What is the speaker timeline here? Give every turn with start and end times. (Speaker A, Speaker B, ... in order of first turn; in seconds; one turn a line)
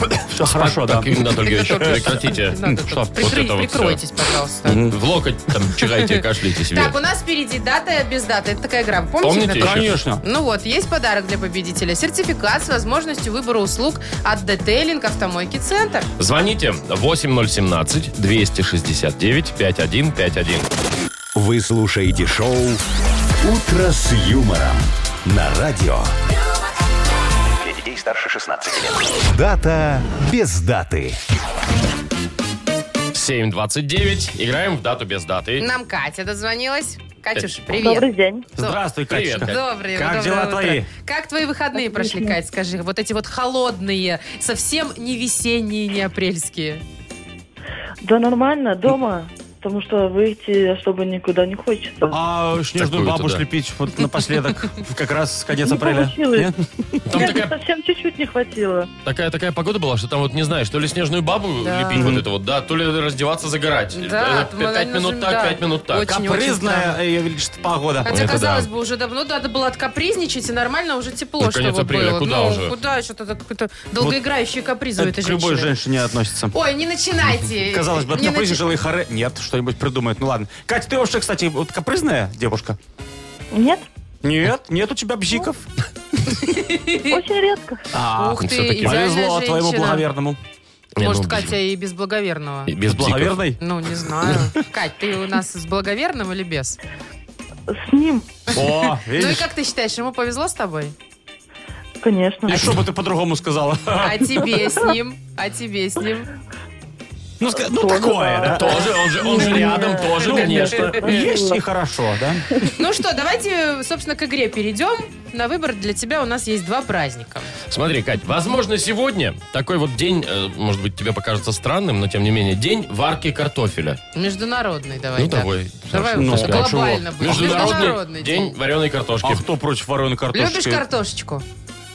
Speaker A: 0.3-3.3
Speaker B: 0.4-2.6
Speaker C: 1.4-4.8
Speaker B: 3.2-4.0
Speaker A: 4.7-5.0
Speaker B: 4.7-7.0
Speaker C: 6.7-16.1
Speaker B: 9.2-10.0
Speaker A: 9.6-10.2
Speaker B: 16.2-20.7
Speaker D: 21.4-22.8
Speaker D: 23.4-26.1
Speaker D: 27.6-31.2
Speaker B: 33.1-35.7
Speaker C: 35.6-38.8
Speaker E: 37.7-38.5
Speaker A: 38.6-40.9
Speaker B: 39.1-39.6
Speaker C: 39.4-46.8
Speaker E: 41.8-42.4
Speaker E: 48.0-52.1
Speaker A: 52.1-57.3
Speaker B: 52.8-53.4
Speaker E: 55.7-56.5
Speaker B: 57.1-57.5
Speaker E: 57.1-58.9
Speaker B: 59.0-66.1
Speaker C: 61.6-62.2
Speaker A: 61.9-62.3
Speaker C: 63.9-67.0
Speaker A: 66.0-68.7
Speaker C: 68.0-75.7
Speaker B: 68.1-68.5
Speaker B: 71.4-72.8
Speaker A: 75.0-76.5
Speaker C: 76.5-78.7
Speaker A: 77.6-82.8
Speaker E: 83.5-83.8
Speaker A: 84.2-85.7
Speaker C: 86.3-87.2
Speaker E: 87.1-87.8
Speaker A: 87.9-90.4
Speaker C: 88.1-90.1
Speaker B: 88.4-89.0
Speaker B: 91.0-91.6
Speaker C: 91.0-92.7
Speaker B: 92.7-93.4
Speaker A: 92.9-93.6
Speaker C: 93.6-96.8
Speaker E: 97.7-98.3
Speaker A: 98.5-99.5
Speaker C: 99.1-101.0
Speaker E: 102.0-102.8
Speaker A: 102.5-104.2
Speaker C: 104.0-106.3
Speaker A: 107.4-109.5
Speaker E: 107.8-111.6
Speaker B: 108.5-111.1
Speaker A: 110.2-112.5
Speaker C: 110.9-111.2
Speaker C: 112.7-117.5
Speaker B: 117.7-124.0
Speaker C: 124.1-128.6
Speaker B: 125.2-129.4
Speaker A: 126.1-128.0
Speaker A: 129.2-130.8
Speaker C: 130.3-131.4